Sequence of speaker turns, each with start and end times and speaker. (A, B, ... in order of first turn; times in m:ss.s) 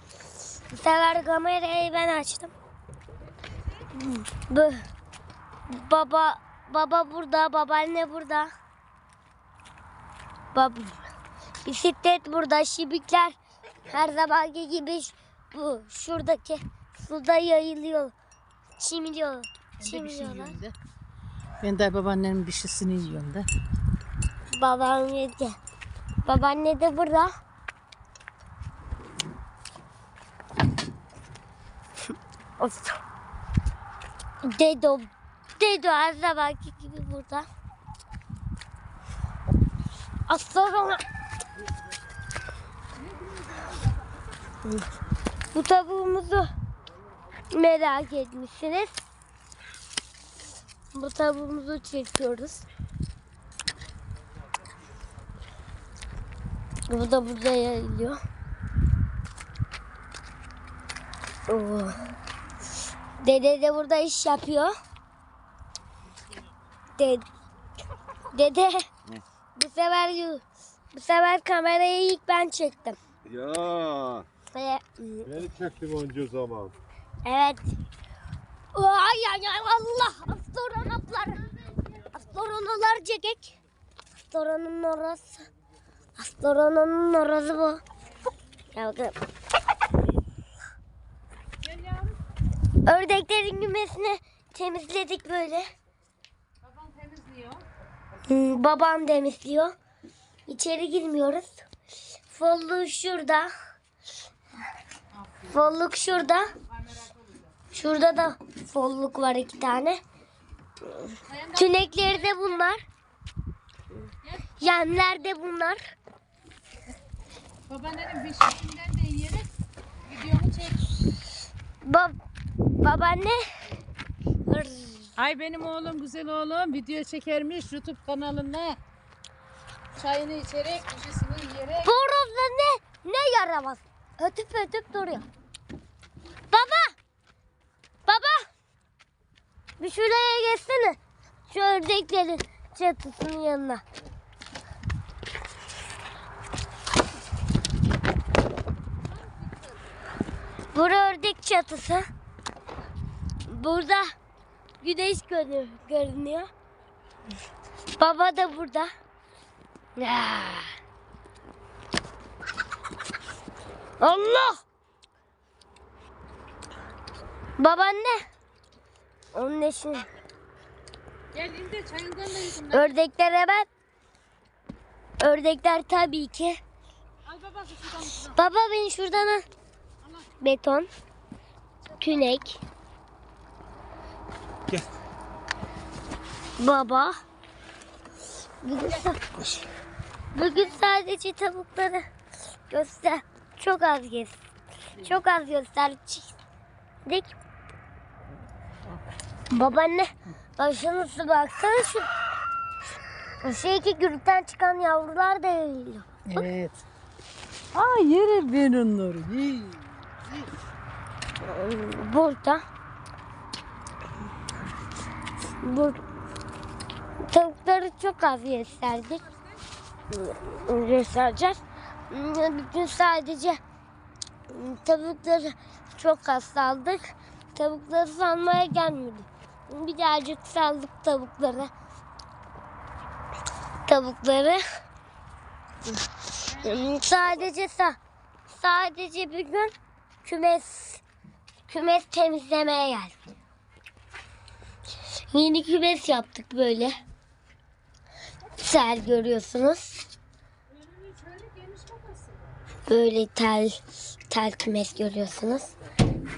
0:00.7-0:02.5 A
0:03.9-0:04.8 A
0:05.7-0:08.5 A
0:10.5-0:11.0 A
0:11.6-0:18.1 A
0:18.8-0:20.6 A
0:19.8-0:20.8 B
0:21.6-0:23.5 B
0:24.5-0:25.6 A
0:26.2-0:27.3 A
0:32.6-0:33.0 A
0:34.4-0:37.4 A
0:40.3-0:41.0 A
0:43.1-0:43.7 B
0:45.5-0:46.5 A
0:47.5-0:49.0 A
0:50.9-0:52.6 A
0:56.9-0:58.2 A
1:01.5-1:02.0 A
1:03.2-1:04.7 A
1:07.0-1:07.2 A
1:08.3-1:08.9 A
1:09.5-1:10.4 A
1:10.9-1:13.0 A
1:13.3-1:14.3 C
1:14.5-1:15.4 A
1:15.3-1:16.7 C
1:17.2-1:17.6 A
1:18.7-1:23.6 A
1:24.3-1:25.5 A
1:26.2-1:27.8 A
1:28.7-1:29.2 A
1:31.6-1:32.2 B
1:32.8-1:35.7 A
1:36.6-1:37.6 B
1:38.3-1:39.7 A
1:40.5-1:41.6 A
1:42.3-1:43.5 A
1:45.1-1:45.7 B
1:45.5-1:46.5 A
1:46.7-1:47.5 B
1:47.7-1:50.0 A
1:51.3-1:52.5 B
1:51.6-1:52.8 A
1:54.2-1:54.6 B
1:54.6-1:55.8 A
1:57.7-1:59.5 B
2:00.1-2:01.0 B
2:01.8-2:02.1 A
2:02.8-2:03.4 A
2:04.5-2:05.1 A
2:05.2-2:08.8 B
2:10.0-2:11.9 B
2:11.8-2:15.2 A
2:16.5-2:16.9 A
2:18.0-2:18.4 A
2:19.8-2:21.0 A
2:21.5-2:23.8 A
2:29.2-2:29.7 B
2:30.7-2:32.0 A
2:33.4-2:34.1 A
2:34.8-2:36.5 A
2:38.0-2:38.9 A
2:40.0-2:40.7 A
2:44.0-2:44.6 A
2:47.6-2:48.2 A
2:49.3-2:50.1 A
2:51.3-2:52.9 B
2:52.7-2:53.6 A
2:55.2-2:56.6 A
2:57.2-2:58.4 B
2:58.2-2:59.4 A
3:00.0-3:00.3 B
3:00.4-3:00.9 A
3:01.8-3:02.2 B
3:02.0-3:02.6 A
3:06.6-3:07.1 A
3:08.6-3:09.6 A
3:10.3-3:12.0 A
3:12.7-3:14.4 A
3:15.0-3:16.4 A
3:17.0-3:17.3 A
3:19.5-3:22.1 A
3:23.4-3:26.4 A
3:26.3-3:26.8 B
3:27.7-3:30.4 B
3:31.4-3:32.6 A
3:35.6-3:36.0 A
3:37.2-3:39.2 A
3:40.1-3:43.6 A
3:44.5-3:51.7 A
3:53.8-3:54.6 A
3:56.5-3:57.5 B
3:56.5-3:58.0 A
3:58.5-3:59.7 A
4:00.2-4:01.0 A
4:01.7-4:03.1 A
4:05.3-4:07.0 A
4:08.6-4:10.0 A
4:10.7-4:12.5 B
4:12.9-4:15.7 A